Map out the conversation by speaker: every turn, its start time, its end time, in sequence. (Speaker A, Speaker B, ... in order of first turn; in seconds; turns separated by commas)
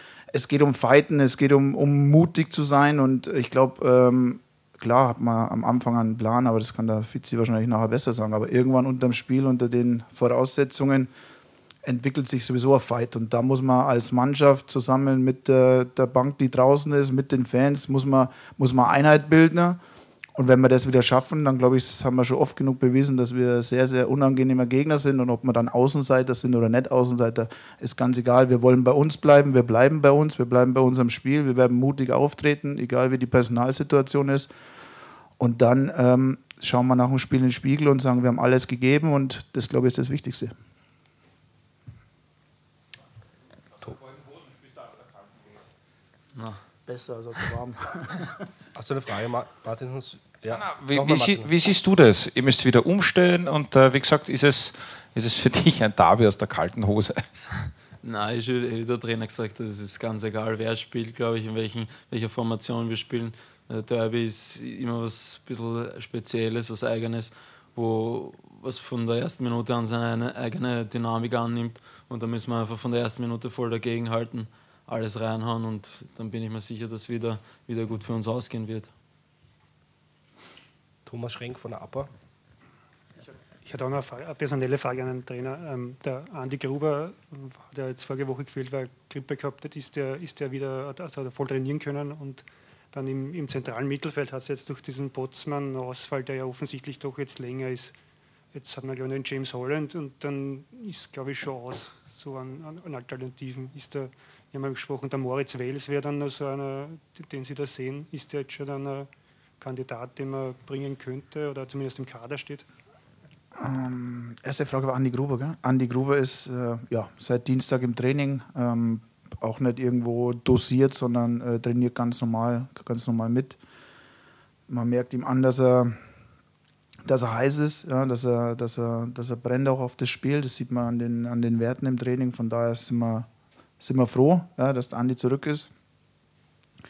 Speaker A: 0.3-11.1, Speaker A: 11.8-19.8, Speaker A: 20.4-34.5, Speaker A: 35.4-40.5, Speaker B: 46.3-46.6, Speaker A: 46.9-48.3, Speaker C: 48.7-51.5, Speaker D: 50.5-57.2, Speaker B: 58.0-78.9, Speaker C: 81.0-82.1, Speaker E: 83.2-97.9, Speaker E: 98.5-109.1, Speaker E: 109.6-112.7, Speaker A: 113.5-123.6, Speaker A: 124.7-126.0, Speaker A: 127.0-133.3, Speaker A: 133.8-135.7